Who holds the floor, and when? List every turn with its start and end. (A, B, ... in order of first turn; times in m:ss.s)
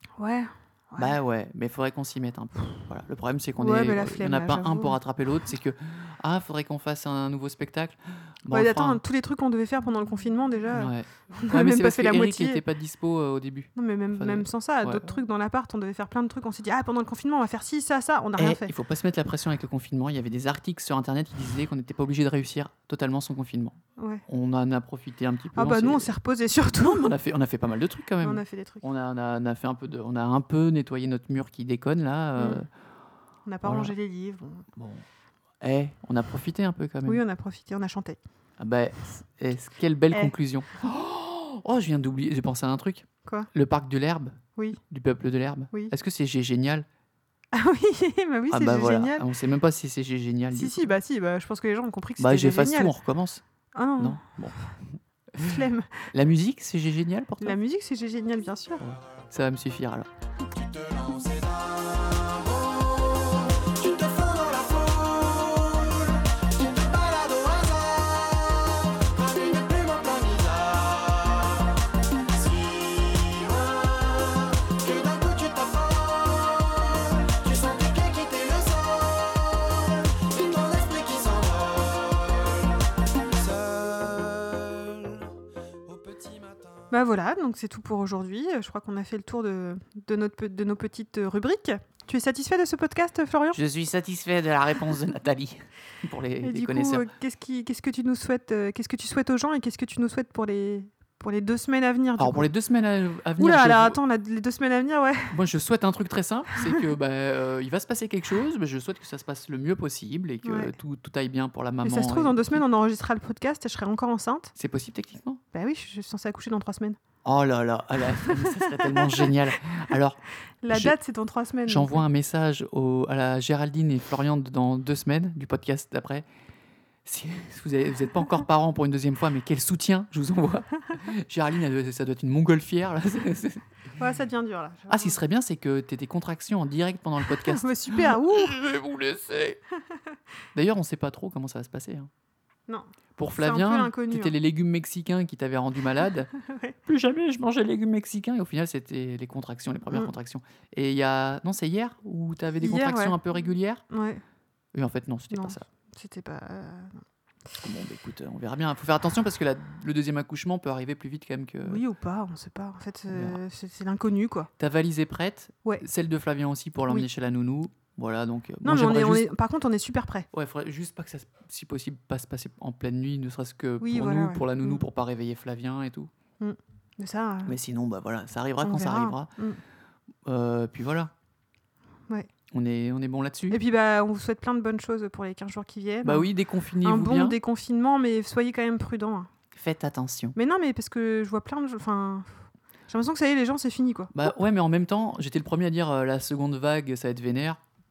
0:00.2-0:01.2 A
0:01.0-0:09.0 B
0:03.6-0:05.0 A
0:08.5-0:12.6 A
0:10.7-0:15.1 B
0:13.8-0:18.7 A
0:18.4-0:26.1 B
0:24.0-0:24.2 A
0:25.5-0:27.1 A
0:26.7-0:32.7 B
0:28.2-0:28.8 A
0:32.4-0:32.6 A
0:33.4-0:34.6 A
0:33.6-0:33.9 B
0:34.7-0:35.0 B
0:35.6-0:37.2 B
0:37.0-0:38.2 A
0:38.6-0:46.8 B
0:47.5-0:49.2 A
0:48.5-0:50.9 B
0:50.5-0:52.9 A
0:52.2-0:53.4 B
0:53.7-0:54.2 A
0:54.0-0:55.5 B
0:55.3-0:56.1 A
0:56.1-0:57.5 B
0:57.4-0:58.8 A
0:58.8-1:00.1 B
1:00.5-1:11.8 C
1:12.3-1:22.8 C
1:23.3-1:25.3 C
1:25.8-1:26.9 C
1:26.9-1:33.6 A
1:33.5-1:37.1 B
1:36.4-1:42.5 A
1:42.2-1:44.0 B
1:43.4-1:45.3 A
1:45.3-1:52.6 B
1:50.4-1:50.7 A
1:51.8-1:54.5 A
1:54.5-1:55.4 B
1:55.5-1:57.0 A
1:57.2-2:01.0 B
1:58.1-1:59.4 A
2:00.6-2:02.0 A
2:01.7-2:06.2 B
2:07.0-2:13.6 B
2:14.0-2:15.2 A
2:14.9-2:19.6 B
2:17.3-2:18.5 A
2:20.5-2:22.1 B
2:22.7-2:24.3 A
2:23.2-2:26.3 B
2:26.3-2:26.7 A
2:26.8-2:33.8 B
2:32.6-2:33.2 A
2:33.9-2:34.2 A
2:34.7-2:35.6 B
2:35.3-2:37.0 A
2:37.6-2:41.8 B
2:41.6-2:44.5 A
2:43.1-2:43.4 B
2:44.6-2:49.2 B
2:48.6-2:50.3 A
2:50.3-2:56.1 B
2:53.8-2:54.8 A
2:56.4-2:57.6 A
2:57.4-2:59.3 B
2:58.6-2:59.6 A
3:00.2-3:01.1 B
3:02.5-3:03.6 B
3:03.5-3:06.3 A
3:06.0-3:07.4 B
3:06.8-3:09.3 A
3:09.5-3:10.4 B
3:10.3-3:14.3 A
3:14.1-3:17.6 B